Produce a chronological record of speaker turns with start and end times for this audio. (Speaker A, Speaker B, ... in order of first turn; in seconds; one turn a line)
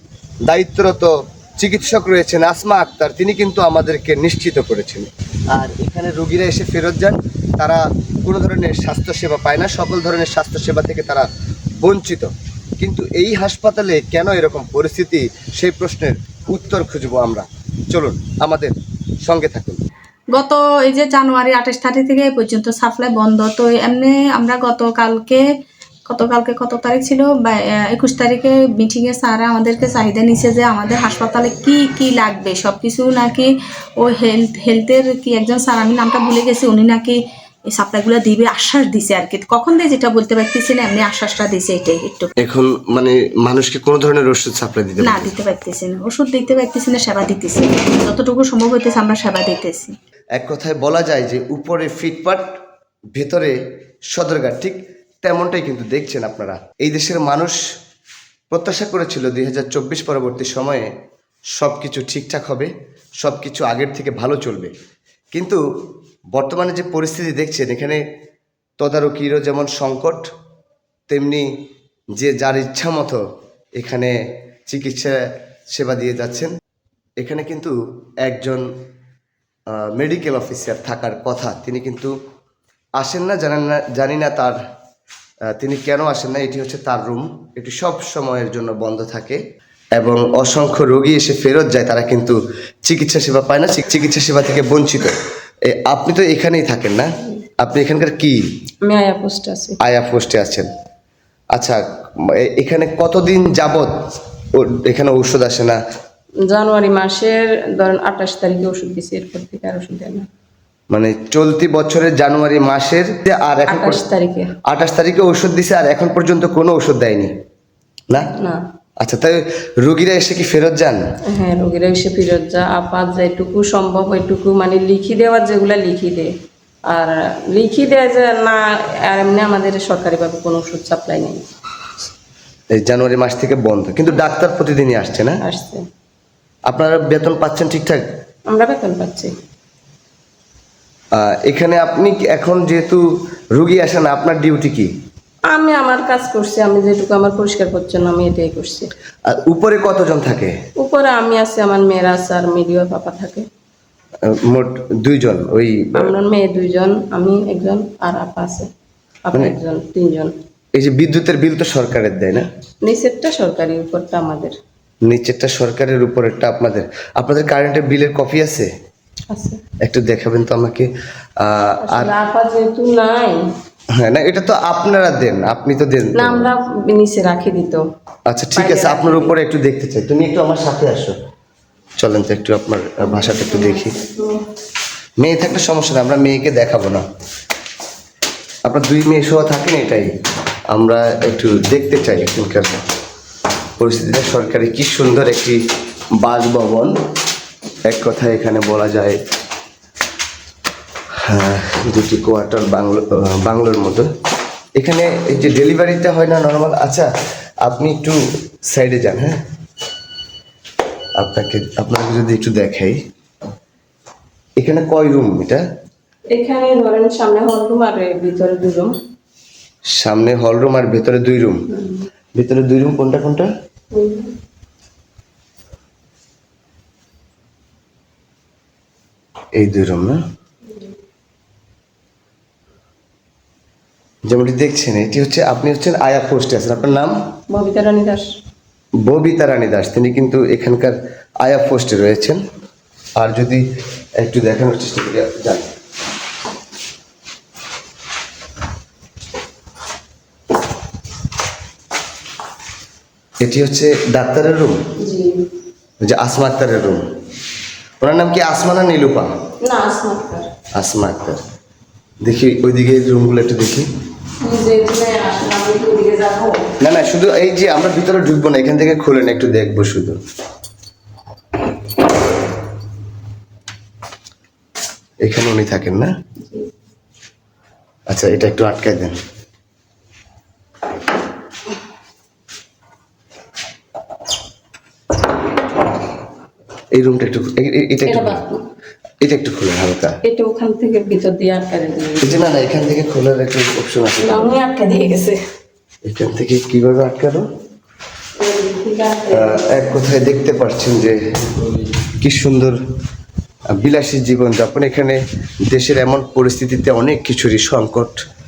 Speaker A: 0.5-11.3
Speaker A: 11.8-12.3
Speaker A: 12.8-18.7
Speaker A: 19.2-19.8
Speaker B: 20.3-25.4
Speaker B: 26.1-37.2
Speaker B: 37.7-42.3
Speaker A: 42.4-45.3
Speaker B: 45.0-49.9
Speaker A: 50.4-52.5
Speaker A: 53.1-53.5
Speaker A: 54.1-57.6
Speaker A: 58.5-60.9
Speaker A: 61.6-64.7
Speaker A: 65.3-65.6
Speaker A: 66.3-68.0
Speaker A: 68.8-70.3
Speaker A: 71.1-71.5
Speaker A: 72.2-73.2
Speaker A: 73.8-74.1
Speaker A: 74.7-75.2
Speaker A: 75.7-76.5
Speaker A: 77.2-78.7
Speaker A: 79.8-82.1
Speaker A: 83.0-84.6
Speaker A: 85.6-89.4
Speaker A: 90.0-95.2
Speaker A: 95.7-97.1
Speaker A: 97.6-98.4
Speaker C: 98.9-99.8
Speaker A: 99.8-100.7
Speaker A: 102.4-103.9
Speaker A: 104.6-105.8
Speaker C: 106.5-110.2
Speaker A: 110.9-114.0
Speaker C: 113.7-114.5
Speaker A: 114.7-117.3
Speaker A: 119.0-121.0
Speaker C: 121.3-126.3
Speaker C: 126.9-131.5
Speaker A: 132.7-135.4
Speaker C: 135.4-135.8
Speaker A: 136.7-138.0
Speaker C: 138.5-139.3
Speaker A: 141.2-143.0
Speaker A: 143.6-144.9
Speaker C: 145.5-148.9
Speaker A: 149.3-150.5
Speaker C: 150.8-153.4
Speaker A: 154.3-156.1
Speaker C: 155.9-158.7
Speaker C: 159.2-160.3
Speaker A: 160.8-162.5
Speaker C: 162.9-164.5
Speaker A: 165.1-168.7
Speaker C: 169.3-169.6
Speaker A: 169.8-170.9
Speaker A: 171.4-172.1
Speaker C: 171.8-173.4
Speaker A: 174.0-176.5
Speaker C: 176.2-177.8
Speaker A: 178.3-181.2
Speaker C: 178.6-179.3
Speaker A: 182.0-184.0
Speaker C: 183.3-184.2
Speaker A: 185.2-187.0
Speaker A: 188.7-190.1
Speaker A: 190.7-192.8
Speaker A: 193.8-195.6
Speaker A: 196.2-196.9
Speaker A: 197.9-199.2
Speaker A: 201.2-204.1
Speaker A: 204.8-207.1
Speaker A: 207.7-208.2
Speaker A: 208.7-209.4
Speaker A: 211.2-213.0
Speaker A: 214.6-215.6
Speaker C: 216.3-218.9
Speaker A: 219.9-221.6
Speaker A: 222.4-223.5
Speaker C: 223.9-224.3
Speaker A: 229.6-230.2
Speaker A: 234.3-237.2
Speaker C: 237.5-238.3
Speaker A: 239.1-242.4
Speaker A: 243.2-243.6
Speaker A: 244.2-245.7
Speaker A: 253.4-254.8
Speaker C: 255.0-255.4
Speaker A: 256.1-257.0
Speaker A: 258.0-259.3
Speaker C: 259.6-260.5
Speaker A: 260.8-261.4
Speaker A: 262.2-263.9
Speaker C: 264.4-266.6
Speaker A: 266.8-270.2
Speaker A: 275.2-276.1
Speaker A: 278.1-279.2
Speaker A: 286.9-288.4
Speaker C: 288.1-288.6
Speaker A: 289.2-290.2
Speaker C: 290.2-292.3
Speaker A: 292.2-294.6
Speaker C: 294.2-295.4
Speaker A: 296.1-297.5
Speaker C: 298.4-299.9
Speaker A: 299.3-302.8
Speaker A: 303.7-308.2